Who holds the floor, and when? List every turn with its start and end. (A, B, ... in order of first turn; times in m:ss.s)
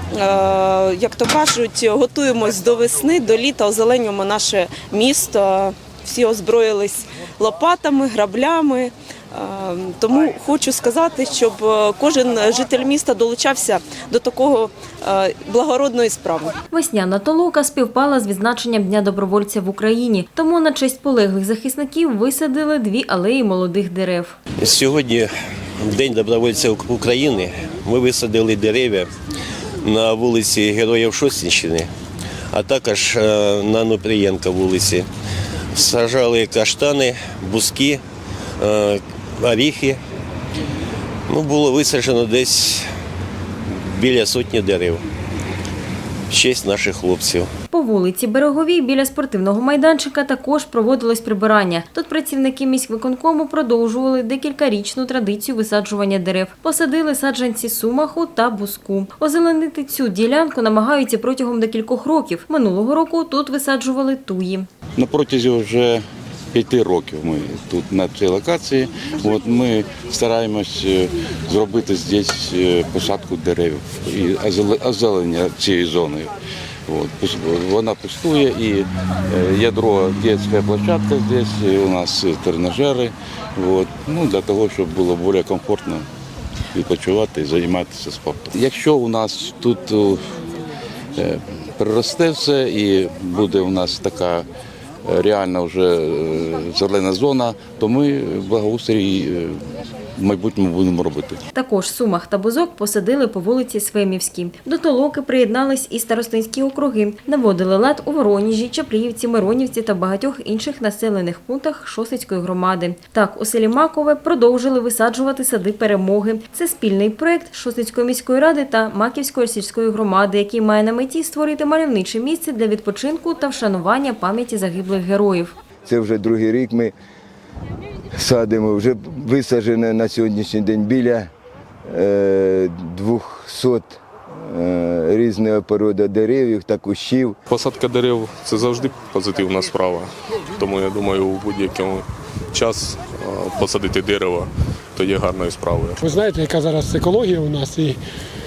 0:00.1-0:16.6 A
0:16.7-0:24.4 B
0:24.6-0:29.1 C
0:29.8-0:31.9 C
0:32.5-0:35.1 C
0:35.7-0:38.0 C
0:38.6-0:40.0 C
0:41.3-0:42.9 C
0:43.7-0:45.0 C
0:46.3-0:47.5 C
0:47.7-1:04.7 B
1:05.0-1:16.3 D
1:16.9-1:26.0 D
1:26.7-1:30.2 D
1:31.2-1:34.5 D
1:35.0-1:39.6 D
1:40.2-1:41.4 D
1:41.6-2:05.5 B
2:05.8-2:06.9 E
2:08.2-2:11.3 E
2:11.9-2:17.4 E
2:17.5-2:26.0 F
2:26.0-2:28.0 G